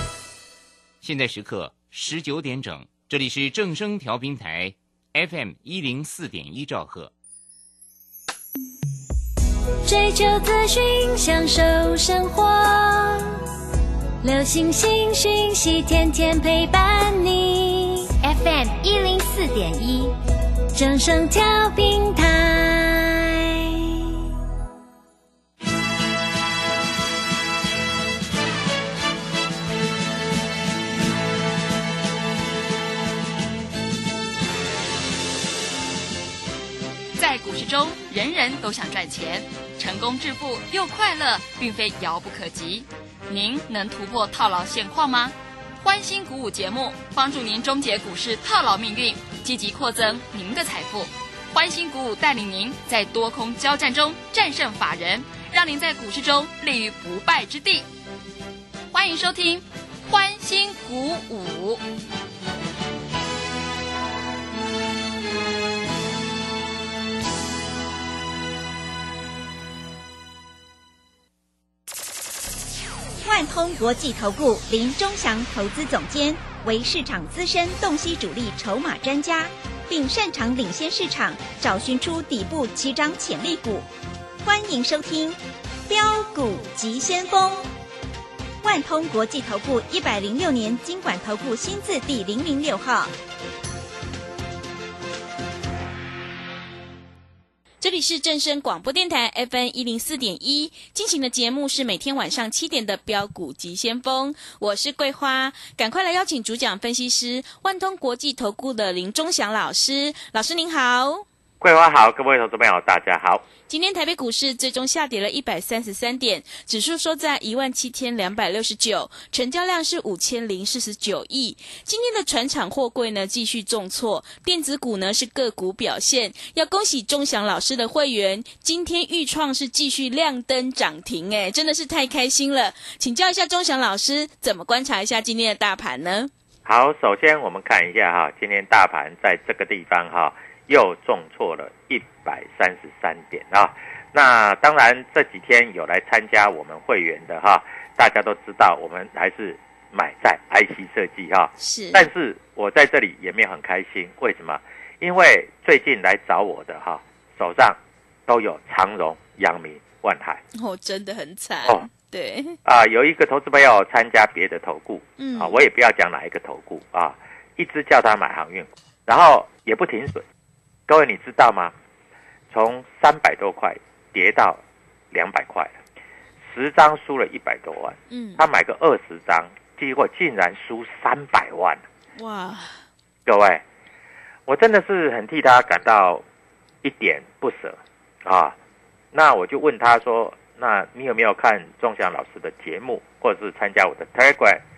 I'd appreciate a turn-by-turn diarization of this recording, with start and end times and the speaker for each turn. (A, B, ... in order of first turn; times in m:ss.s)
0:01.0-0:07.1 A
0:09.8-0:13.4 B
0:14.2-0:20.1 B
0:20.7-0:24.1 B
0:37.2-0:57.9 C
0:58.9-1:01.8 C
1:13.2-1:23.9 D
1:24.4-1:27.7 D
1:28.6-1:33.1 D
1:37.8-1:51.2 E
1:51.6-1:53.4 F
1:53.7-2:16.3 E
2:16.6-2:40.4 F
2:31.6-2:32.0 E
2:40.6-2:42.6 E
2:42.6-2:50.2 F
2:45.2-2:45.6 E
2:50.9-2:51.7 F
2:52.5-2:54.6 F
2:55.1-2:55.8 F
2:56.4-3:01.8 F
2:58.1-2:58.4 E
3:02.2-3:02.7 E
3:03.2-3:03.6 F
3:04.5-3:06.2 F
3:06.8-3:08.6 F
3:09.1-3:14.6 F